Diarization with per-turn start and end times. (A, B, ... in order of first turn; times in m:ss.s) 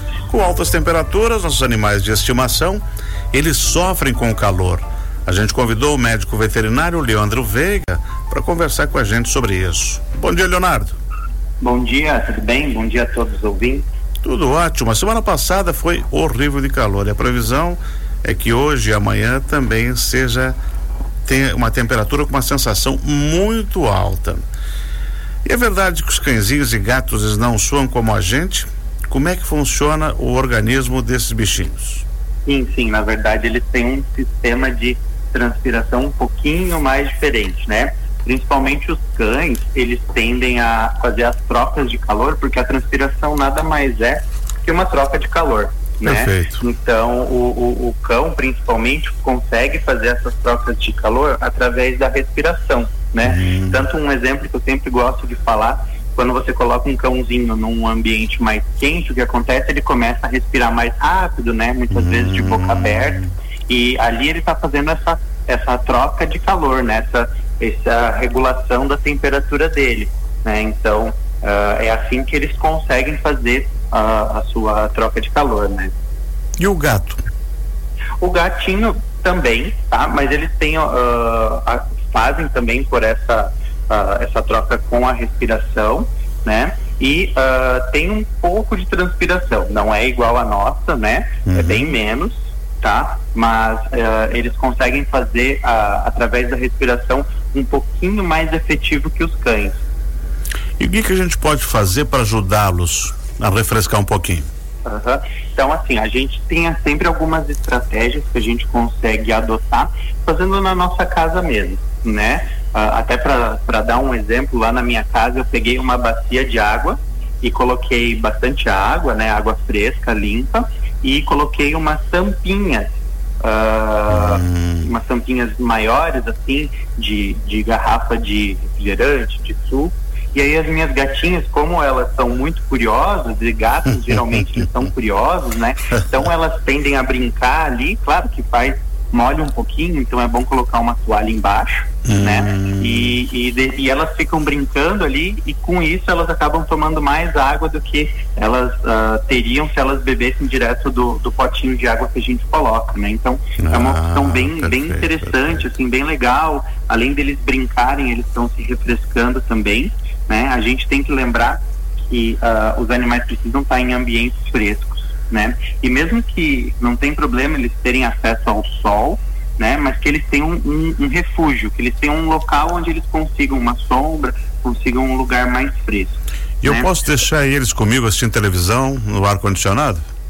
0:00.3-0:11.0 A
0:11.6-0:13.8 B
0:14.2-0:20.6 A
0:21.2-0:24.4 A
0:25.4-0:32.0 A
0:32.4-1:15.9 B
0:46.0-0:46.6 A
0:53.2-0:53.8 A
1:01.9-1:03.3 A
1:16.6-1:17.2 A
1:18.2-1:39.8 B
1:31.5-1:32.0 A
1:40.8-1:44.5 A
1:44.8-2:57.0 B
2:04.1-2:04.9 A
2:22.0-2:23.1 A
2:33.6-2:35.7 A
2:56.6-3:00.1 A